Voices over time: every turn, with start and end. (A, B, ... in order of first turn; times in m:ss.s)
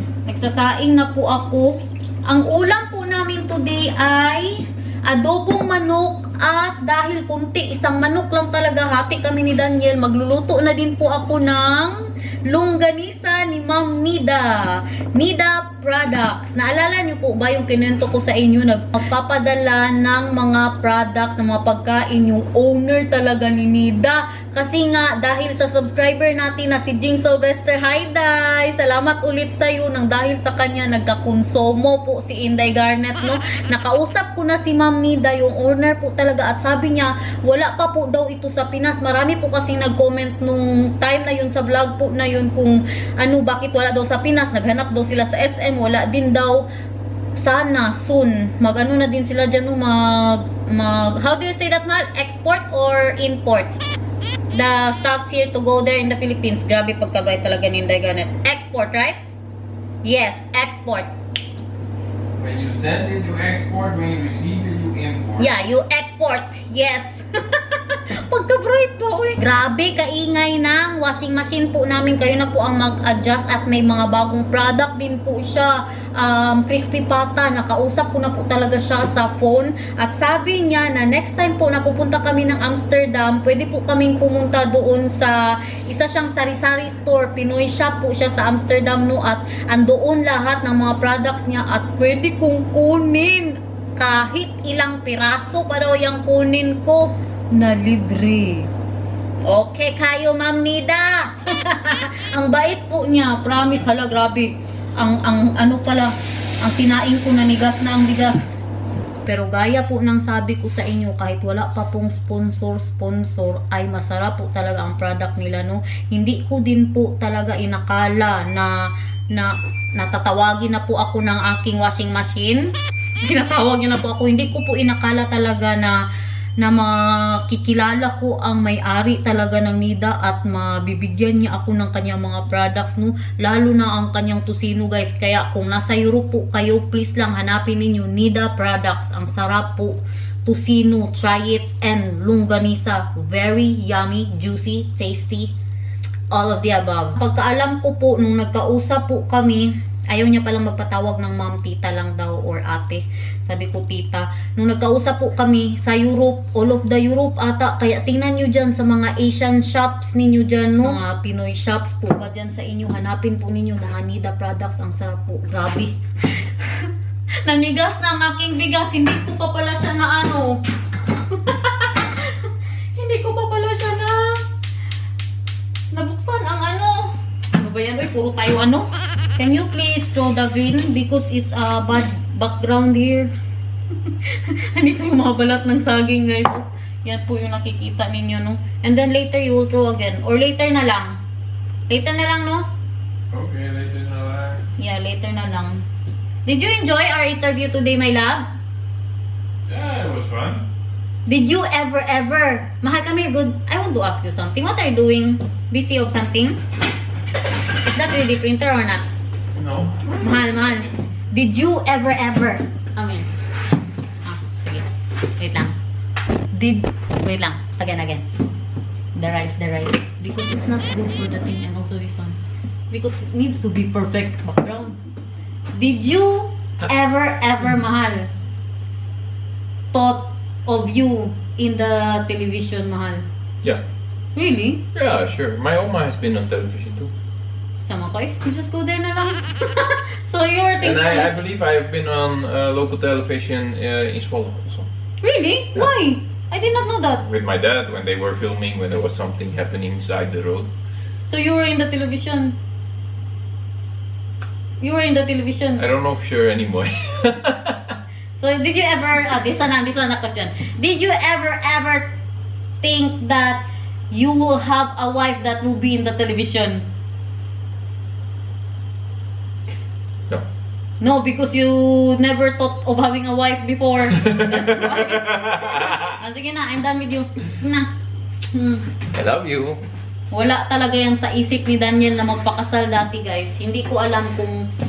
0:00.3-0:46.7 A
0:47.4-0:53.8 A
0:54.5-0:59.2 A
1:00.0-1:01.1 A
1:02.4-1:05.5 B
1:05.4-1:38.7 A
1:39.4-1:48.5 A
1:49.2-1:58.7 A
1:59.3-2:06.0 A
2:06.6-2:25.5 A
2:26.3-2:46.9 A
2:47.4-2:50.6 A
2:51.1-2:54.4 A
2:55.9-3:03.3 A
3:04.0-3:11.2 A
3:11.9-3:12.7 A
3:13.3-3:14.6 B
3:14.8-3:15.8 A
3:16.5-3:18.5 A
3:19.7-3:20.7 B
3:21.3-3:26.6 A
3:27.7-3:29.0 A
3:29.6-3:31.0 B
3:30.2-3:33.3 A
3:34.2-3:35.8 A
3:36.5-3:38.2 A
3:39.2-3:42.4 A
3:42.9-3:45.0 A
3:45.7-3:48.3 A
3:49.9-3:53.3 A
3:54.4-3:54.8 A
3:54.9-3:57.1 B
3:57.8-4:01.3 A
4:00.8-4:04.9 B
4:05.2-4:07.2 A
4:07.2-4:10.7 B
4:11.3-4:12.6 A
4:14.8-4:15.8 A
4:15.8-4:18.0 B
4:18.4-4:22.1 A
4:22.8-4:26.9 A
4:31.0-4:37.9 A
4:34.3-4:36.2 B
4:38.5-4:38.9 A
4:39.1-4:39.8 B
4:40.3-4:44.6 A